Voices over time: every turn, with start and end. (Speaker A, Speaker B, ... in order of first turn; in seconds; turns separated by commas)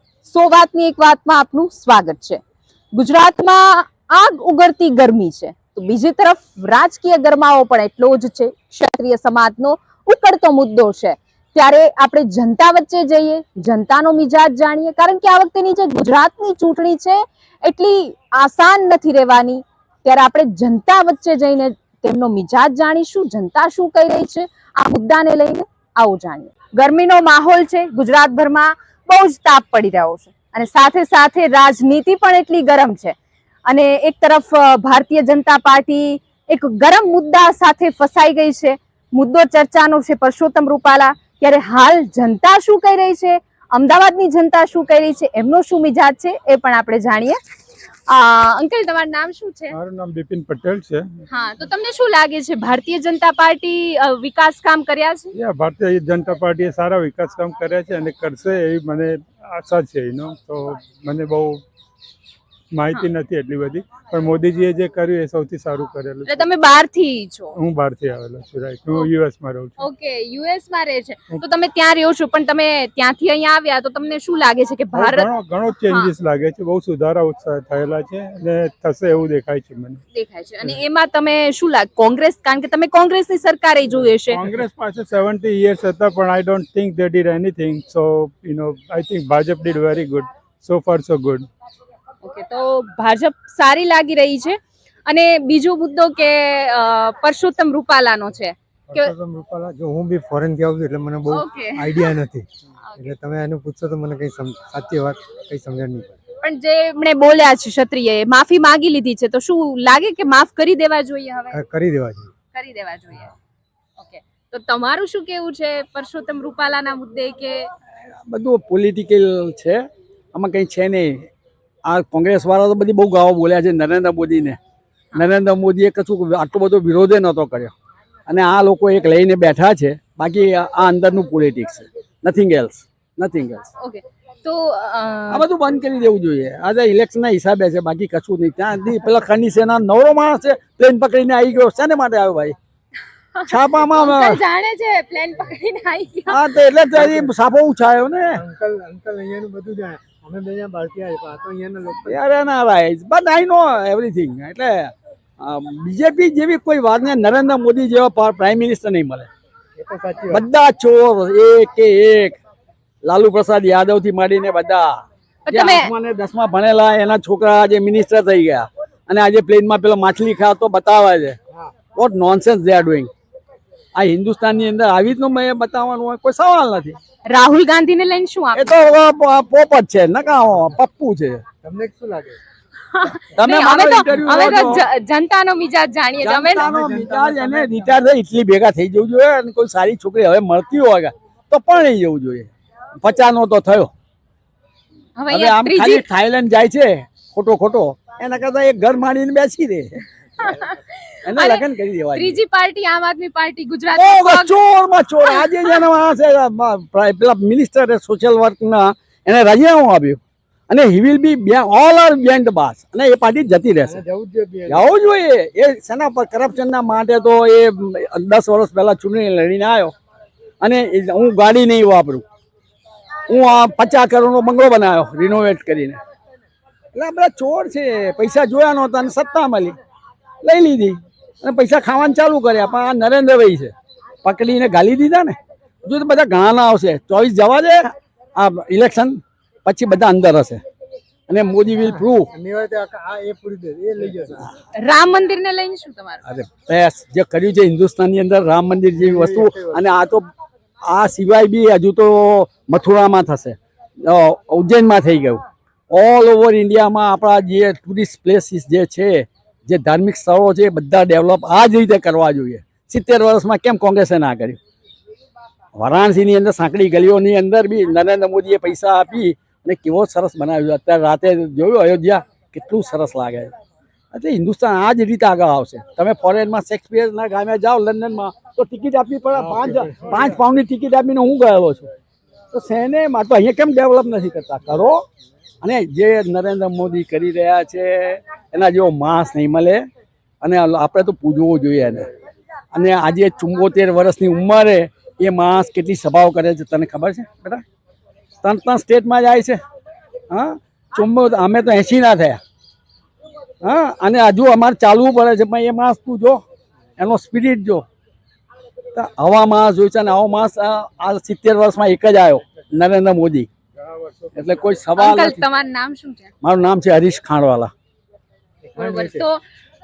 Speaker A: 0.2-2.4, Speaker A: 2.9-33.1, Speaker A: 33.7-47.4, Speaker A: 48.1-49.8, Speaker B: 49.7-51.1, Speaker A: 51.3-55.3, Speaker B: 55.4-61.6, Speaker B: 62.7-66.5, Speaker A: 66.3-67.6, Speaker B: 67.6-69.8, Speaker A: 69.8-75.3, Speaker B: 74.9-80.0, Speaker A: 80.1-84.5, Speaker B: 84.3-91.5, Speaker A: 92.2-99.1, Speaker C: 98.9-102.5, Speaker A: 101.3-102.1, Speaker A: 102.9-103.1, Speaker C: 103.0-106.2, Speaker A: 106.4-111.6, Speaker C: 111.5-112.3, Speaker A: 112.5-113.3, Speaker A: 114.0-117.7, Speaker D: 118.3-119.8, Speaker D: 120.3-121.3, Speaker D: 121.9-124.6, Speaker D: 125.2-127.7, Speaker D: 128.3-133.7, Speaker A: 133.8-135.5, Speaker D: 135.3-142.6, Speaker A: 143.3-146.5, Speaker D: 143.5-144.4, Speaker D: 146.3-148.4, Speaker C: 147.0-147.3, Speaker C: 148.3-152.2, Speaker D: 152.1-159.3, Speaker C: 159.8-160.4, Speaker D: 160.3-162.4, Speaker D: 163.0-171.4, Speaker A: 165.5-165.9, Speaker D: 171.9-173.1, Speaker D: 174.0-177.0, Speaker A: 177.3-178.7, Speaker D: 178.6-181.4, Speaker C: 181.6-182.4, Speaker A: 182.9-186.7, Speaker D: 183.4-184.9, Speaker D: 186.2-192.5, Speaker C: 186.6-188.0, Speaker D: 193.0-193.9, Speaker A: 195.2-196.1, Speaker D: 195.3-200.1, Speaker A: 200.4-204.5, Speaker D: 201.3-202.4, Speaker D: 203.9-214.0, Speaker A: 205.2-205.8, Speaker C: 213.8-214.9, Speaker D: 214.7-219.9, Speaker D: 220.6-222.2, Speaker D: 223.3-226.0, Speaker D: 226.9-229.8, Speaker D: 230.4-233.7, Speaker D: 234.2-240.6, Speaker D: 241.3-242.3, Speaker C: 241.8-244.5, Speaker A: 244.8-246.2, Speaker D: 246.3-250.2, Speaker C: 249.0-249.8, Speaker D: 250.9-264.6, Speaker D: 265.8-273.5, Speaker D: 274.1-281.9, Speaker C: 279.4-280.4, Speaker D: 282.5-285.0, Speaker D: 285.6-289.8, Speaker D: 290.4-292.1, Speaker D: 292.7-297.6, Speaker D: 298.4-299.6, Speaker D: 300.3-302.4, Speaker D: 303.6-306.4, Speaker D: 307.0-307.8, Speaker D: 308.9-313.5, Speaker B: 313.9-314.6, Speaker D: 314.4-315.4, Speaker A: 315.0-316.3, Speaker D: 316.4-317.7, Speaker C: 318.7-319.2, Speaker A: 318.8-319.4